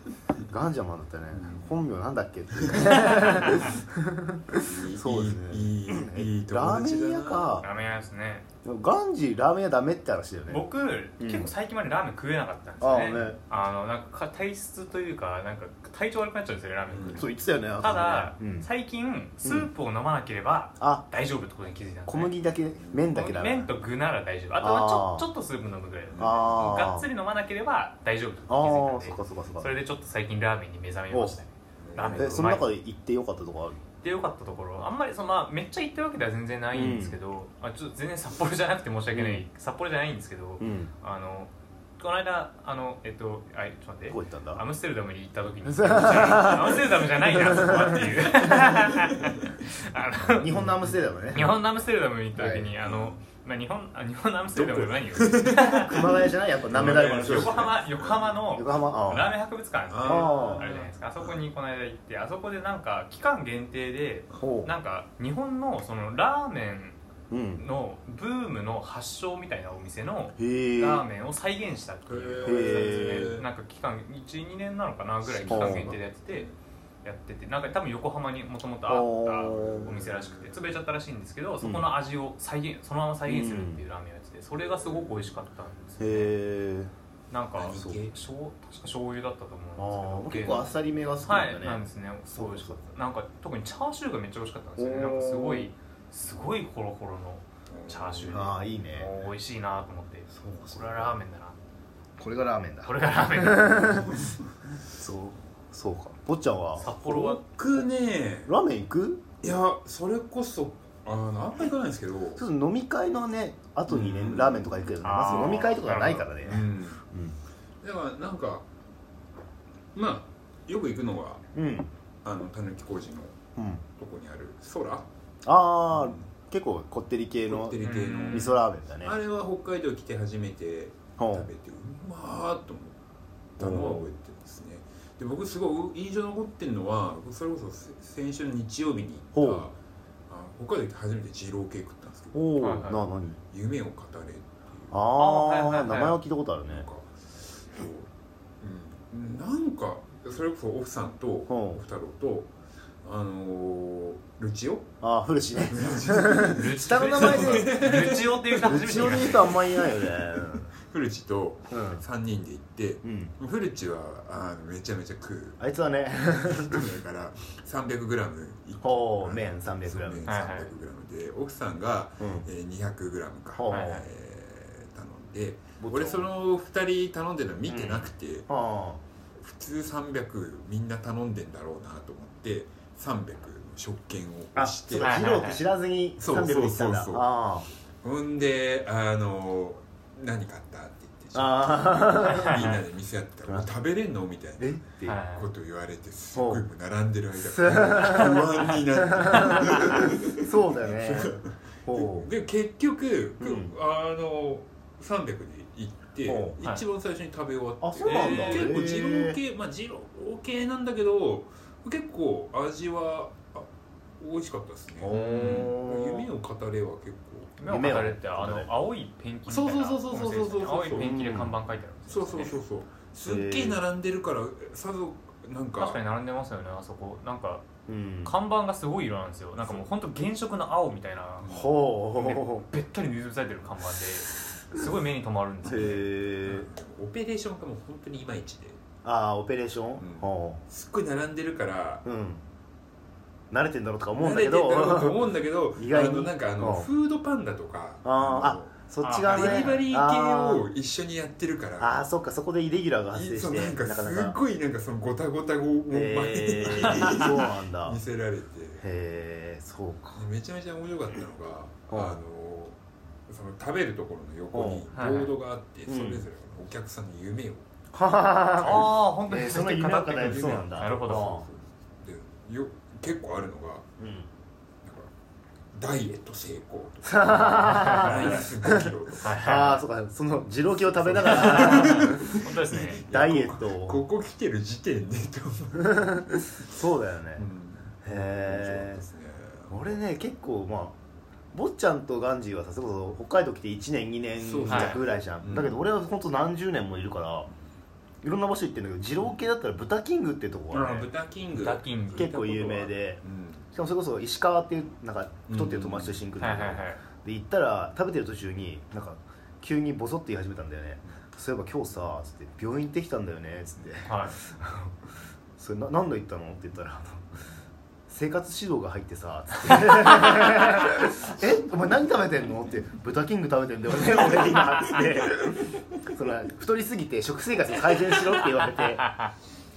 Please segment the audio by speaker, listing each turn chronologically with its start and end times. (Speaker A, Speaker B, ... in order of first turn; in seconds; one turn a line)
Speaker A: 0.5-7.7
Speaker B: 1.3-1.7
Speaker B: 2.6-3.6
Speaker B: 4.6-7.7
Speaker C: 7.6-8.5
Speaker A: 8.7-10.7
Speaker C: 10.5-22.3
Speaker A: 11.2-11.5
Speaker A: 12.8-13.4
Speaker B: 16.9-17.2
Speaker A: 17.1-18.7
Speaker A: 19.4-19.7
Speaker A: 20.8-21.1
Speaker A: 22.1-23.7
Speaker B: 22.8-23.0
Speaker C: 23.1-32.7
Speaker A: 24.6-25.3
Speaker B: 26.1-26.6
Speaker A: 26.2-27.1
Speaker A: 28.5-29.7
Speaker A: 31.1-31.4
Speaker B: 31.8-32.5
Speaker A: 32.1-33.8
Speaker C: 34.0-50.7
Speaker A: 36.7-37.2
Speaker A: 39.1-39.4
Speaker A: 40.6-40.9
Speaker A: 44.1-44.6
Speaker A: 45.6-48.8
Speaker A: 50.4-51.6
Speaker B: 50.5-50.9
Speaker C: 51.3-56.2
Speaker A: 52.4-52.7
Speaker B: 52.8-53.2
Speaker B: 54.5-55.9
Speaker A: 55.8-57.8
Speaker B: 56.7-58.4
Speaker C: 56.8-67.0
Speaker A: 58.5-59.3
Speaker B: 59.9-61.4
Speaker A: 60.0-60.7
Speaker A: 64.4-64.7
Speaker A: 67.3-67.6
Speaker C: 67.6-76.5
Speaker A: 70.4-71.0
Speaker B: 72.1-73.5
Speaker A: 72.4-73.3
Speaker B: 75.2-76.5
Speaker A: 75.5-76.0
Speaker C: 77.0-86.3
Speaker A: 78.9-80.0
Speaker B: 79.6-80.6
Speaker A: 81.6-81.9
Speaker A: 83.3-83.8
Speaker B: 84.6-85.2
Speaker A: 86.0-86.9
Speaker C: 87.3-101.6
Speaker B: 87.6-88.1
Speaker A: 87.7-88.0
Speaker A: 89.8-91.8
Speaker A: 92.3-92.8
Speaker A: 94.8-95.7
Speaker B: 97.7-98.5
Speaker A: 98.3-99.1
Speaker A: 100.3-101.2
Speaker A: 102.2-104.2
Speaker C: 102.8-104.1
Speaker B: 104.1-104.4
Speaker A: 104.9-106.9
Speaker C: 106.8-107.4
Speaker B: 106.9-108.5
Speaker A: 108.4-109.2
Speaker B: 109.4-112.4
Speaker A: 112.4-117.4
Speaker B: 113.9-115.0
Speaker C: 115.0-116.3
Speaker B: 116.4-117.0
Speaker B: 117.8-118.7
Speaker B: 119.9-121.4
Speaker A: 121.5-121.9
Speaker B: 122.2-123.4
Speaker A: 123.6-123.8
Speaker B: 124.0-125.1
Speaker A: 125.4-129.2
Speaker B: 125.9-126.3
Speaker B: 127.5-133.0
Speaker C: 127.8-128.6
Speaker A: 131.2-131.5
Speaker B: 133.6-139.8
Speaker A: 133.6-134.1
Speaker A: 139.3-139.7
Speaker B: 140.3-142.6
Speaker A: 142.3-143.4
Speaker C: 142.6-143.0
Speaker B: 143.4-145.0
Speaker A: 144.9-146.9
Speaker C: 145.2-146.2
Speaker B: 146.7-148.1
Speaker B: 148.6-154.9
Speaker A: 151.5-151.8
Speaker A: 155.0-157.9
Speaker B: 155.7-165.6
Speaker C: 156.5-159.6
Speaker A: 158.6-160.7
Speaker A: 161.7-162.0
Speaker A: 163.0-163.3
Speaker A: 165.6-167.0
Speaker B: 166.3-178.5
Speaker A: 168.8-170.4
Speaker C: 170.2-170.7
Speaker A: 172.2-172.5
Speaker A: 173.6-174.0
Speaker C: 173.7-174.0
Speaker A: 175.8-176.3
Speaker A: 177.7-179.0
Speaker B: 179.4-185.5
Speaker A: 184.6-187.7
Speaker C: 185.0-185.6
Speaker B: 186.2-187.3
Speaker B: 188.0-194.8
Speaker A: 191.3-192.7
Speaker C: 192.5-192.8
Speaker A: 194.6-195.2
Speaker C: 195.1-195.5
Speaker B: 195.3-213.7
Speaker A: 196.3-196.6
Speaker A: 197.4-202.3
Speaker A: 203.4-203.8
Speaker A: 206.2-206.6
Speaker A: 207.8-209.4
Speaker C: 208.1-208.7
Speaker B: 214.2-217.6
Speaker A: 215.0-216.3
Speaker C: 215.1-215.7
Speaker C: 217.6-222.6
Speaker A: 217.7-218.7
Speaker B: 219.5-221.3
Speaker A: 220.9-221.5
Speaker B: 222.1-226.0
Speaker A: 223.2-223.8
Speaker C: 225.8-227.7
Speaker A: 227.9-228.3
Speaker C: 228.2-231.5
Speaker B: 231.4-231.7
Speaker A: 231.5-232.6
Speaker C: 232.2-236.1
Speaker A: 235.6-236.7
Speaker B: 236.4-238.8
Speaker A: 239.0-240.6
Speaker B: 240.0-242.0
Speaker A: 242.0-242.4
Speaker A: 243.5-246.9
Speaker B: 244.2-248.7
Speaker A: 248.0-250.6
Speaker C: 249.0-249.8
Speaker B: 249.3-252.0
Speaker A: 251.8-254.4
Speaker B: 253.1-258.8
Speaker A: 255.9-258.0
Speaker A: 258.8-260.2
Speaker B: 260.1-267.6
Speaker A: 261.9-262.2
Speaker A: 264.5-264.9
Speaker C: 264.9-265.3
Speaker A: 265.9-266.2
Speaker A: 267.9-271.5
Speaker C: 268.6-271.4
Speaker B: 270.2-273.9
Speaker A: 274.0-274.3
Speaker B: 274.8-275.1
Speaker B: 275.7-279.6
Speaker A: 277.0-282.4
Speaker C: 277.7-278.4
Speaker C: 279.2-279.8
Speaker B: 280.7-286.7
Speaker C: 281.2-283.0
Speaker A: 283.0-284.0
Speaker A: 285.8-287.4
Speaker B: 287.4-290.0
Speaker A: 288.0-289.0
Speaker A: 289.7-291.0
Speaker A: 291.5-297.5
Speaker B: 294.4-295.8
Speaker C: 294.7-295.0
Speaker A: 298.2-301.1
Speaker B: 300.7-303.7
Speaker C: 301.5-302.3
Speaker A: 302.1-303.2
Speaker A: 303.7-314.9
Speaker B: 305.5-306.2
Speaker C: 306.4-307.0
Speaker C: 314.1-314.4
Speaker A: 315.6-317.3
Speaker A: 318.1-329.1
Speaker C: 329.0-329.3